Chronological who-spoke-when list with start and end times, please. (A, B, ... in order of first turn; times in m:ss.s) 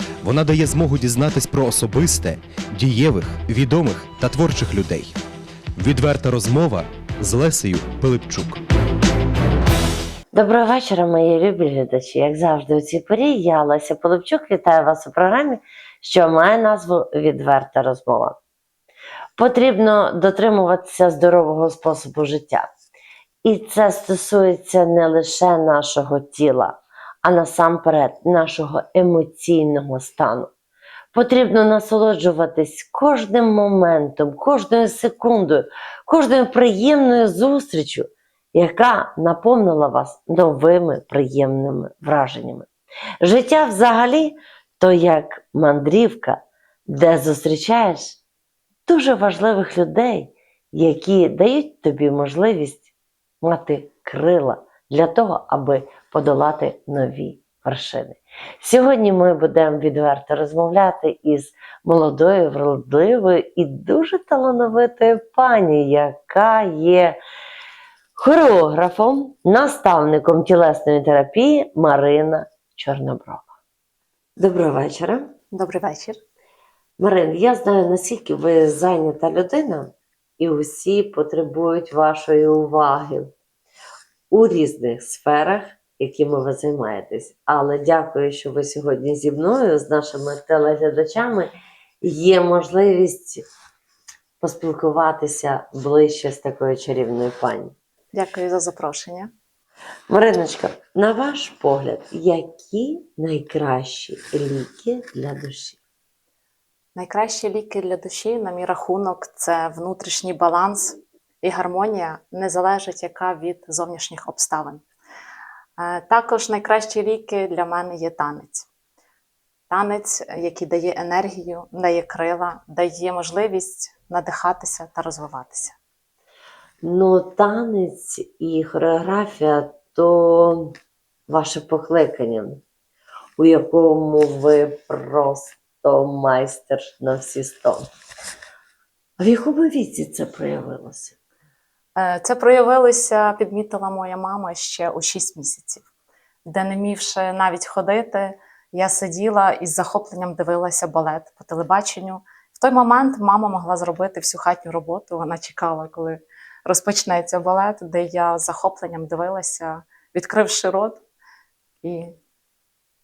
0:00.2-0:05.1 A
0:05.8-0:08.6 A
0:10.3-0:18.4 B
0:19.4-0:22.7 B
0:23.4-0:30.5 B
0:31.1-0:42.7 B
0:43.2-0:48.2 B
0:48.9-0:52.9 B
0:53.4-1:07.2 B
1:08.2-1:13.6 B
1:14.4-1:15.3 B
1:15.5-1:16.2 C
1:17.0-1:23.3 B
1:24.3-1:31.5 B
1:32.0-1:33.4 B
1:34.4-1:37.8 B
1:38.1-1:39.3 C
1:40.1-1:45.8 B
1:47.0-1:54.8 C
1:55.8-1:58.7 C
1:59.7-2:05.8 C
2:06.8-2:10.8 B
2:11.3-2:12.6 B
2:13.4-2:17.9 B
2:19.2-2:21.1 B
2:22.0-2:25.8 C
2:26.5-2:41.0 C
2:41.8-2:42.1 C